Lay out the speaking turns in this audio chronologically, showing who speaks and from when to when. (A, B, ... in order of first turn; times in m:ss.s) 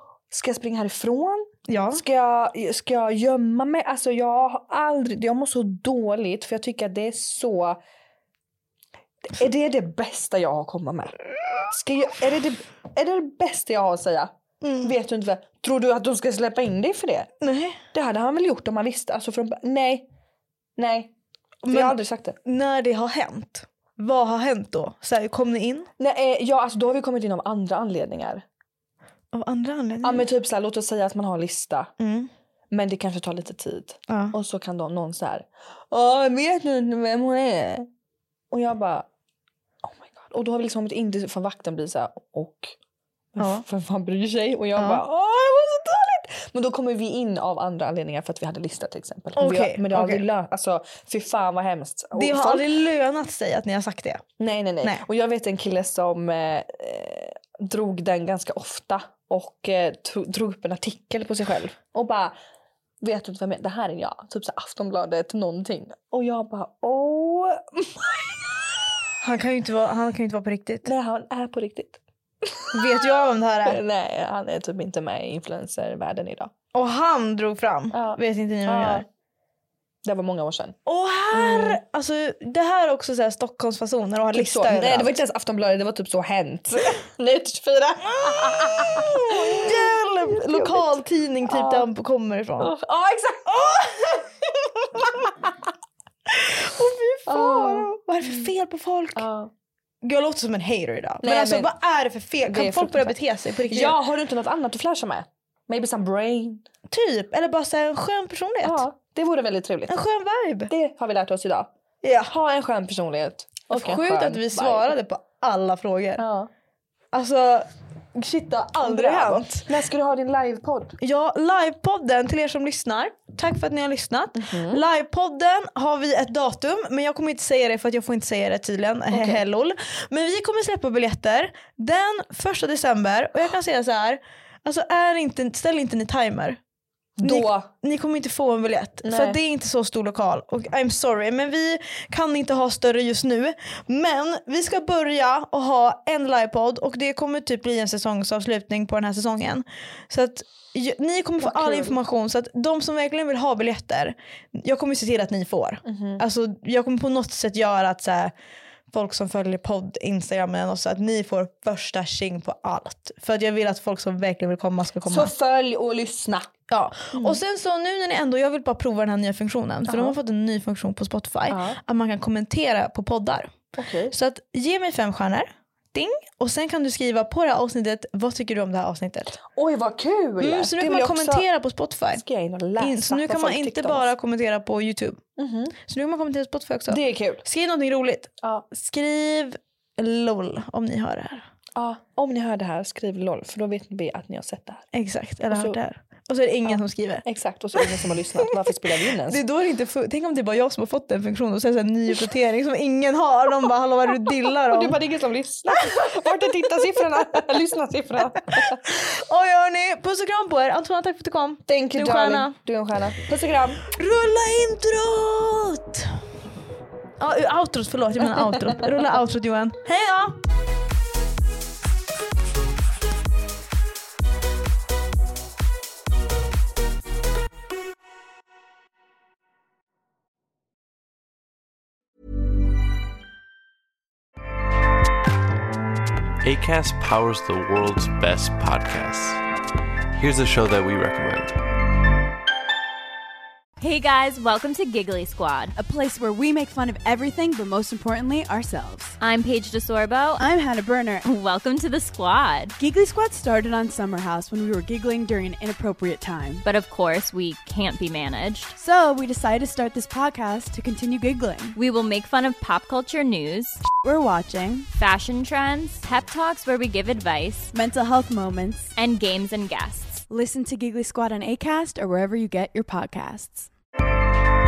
0:00.3-0:07.8 A
0:01.7-0:02.0 B
0:09.3-0:11.2 A
0:11.7-0:14.3 A
0:14.6-0:14.9 B
0:14.8-0:17.3 A
0:17.4-0:17.8 B
0:17.9-0:20.1 A
0:20.8-0:21.1 A
0:21.6-0:25.9 B
0:21.7-0:22.4 A
0:26.0-0:28.4 A
0:29.3-0:30.2 B
0:30.0-0:31.9 A
0:32.0-0:32.3 B
0:32.7-0:37.9 A
0:34.1-0:34.4 B
0:38.5-0:39.1 A
0:39.8-0:42.7 A
0:43.3-0:52.7 A
0:43.4-0:43.6 B
0:44.8-0:45.0 B
0:49.4-0:50.2 B
0:52.1-0:54.2 B
0:54.4-1:02.3 A
1:03.0-1:08.5 A
1:09.2-1:10.9 B
1:10.8-1:16.5 A
1:12.7-1:13.8 B
1:16.7-1:19.0 B
1:17.9-1:19.0 A
1:20.0-1:20.8 A
1:20.8-1:25.2 B
1:21.3-1:21.8 A
1:24.3-1:31.9 A
1:28.3-1:32.7 B
1:32.6-1:34.3 A
1:35.0-1:35.5 A
1:36.3-1:39.3 B
1:37.3-1:38.4 A
1:39.2-1:39.5 A
1:40.0-1:44.0 B
1:41.2-1:41.7 A
1:42.5-1:43.2 A
1:43.7-1:46.6 A
1:46.9-1:48.8 B
1:48.6-1:49.9 A
1:49.9-1:50.7 B
1:50.7-1:51.7 A
1:52.0-1:52.3 B
1:52.3-1:55.0 A
1:53.7-1:56.2 B
1:56.2-1:56.5 A
1:57.1-1:59.7 B
1:58.8-2:01.0 A
2:01.0-2:16.6 B
2:04.3-2:04.8 A
2:09.1-2:09.4 A
2:17.2-2:17.7 A
2:17.2-2:38.3 B
2:19.0-2:19.4 A
2:31.4-2:32.0 A
2:35.8-2:36.2 A
2:38.9-2:45.3 B
2:45.0-2:46.5 A
2:46.7-2:59.4 B
2:47.1-2:47.4 A
2:49.8-2:50.2 A
2:51.5-2:51.8 A
2:53.7-2:54.1 A
2:59.5-3:01.4 A
3:00.4-3:02.2 B
3:02.1-3:04.1 A
3:02.8-3:05.2 B
3:05.4-3:05.7 A
3:05.8-3:11.4 B
3:06.9-3:07.4 A
3:11.8-3:14.9 A
3:14.9-3:17.2 B
3:15.5-3:15.8 A
3:16.7-3:19.4 A
3:19.3-3:25.0 B
3:24.6-3:28.8 A
3:25.7-3:27.4 B
3:28.3-3:32.6 B
3:31.7-3:33.8 A
3:33.9-3:36.2 B
3:37.2-3:40.4 B
3:38.2-3:38.9 A
3:56.4-3:59.4 C
4:00.1-4:01.5 C
4:03.8-4:05.7 D
4:05.8-4:09.2 E
4:09.2-4:10.5 D
4:10.4-4:11.2 E
4:11.2-4:12.8 D
4:12.8-4:16.6 E
4:16.6-4:18.8 D
4:18.7-4:21.8 E
4:21.8-4:23.9 D
4:24.0-4:24.9 E
4:25.0-4:27.7 D
4:27.7-4:28.9 E
4:29.0-4:30.2 D
4:30.3-4:33.7 E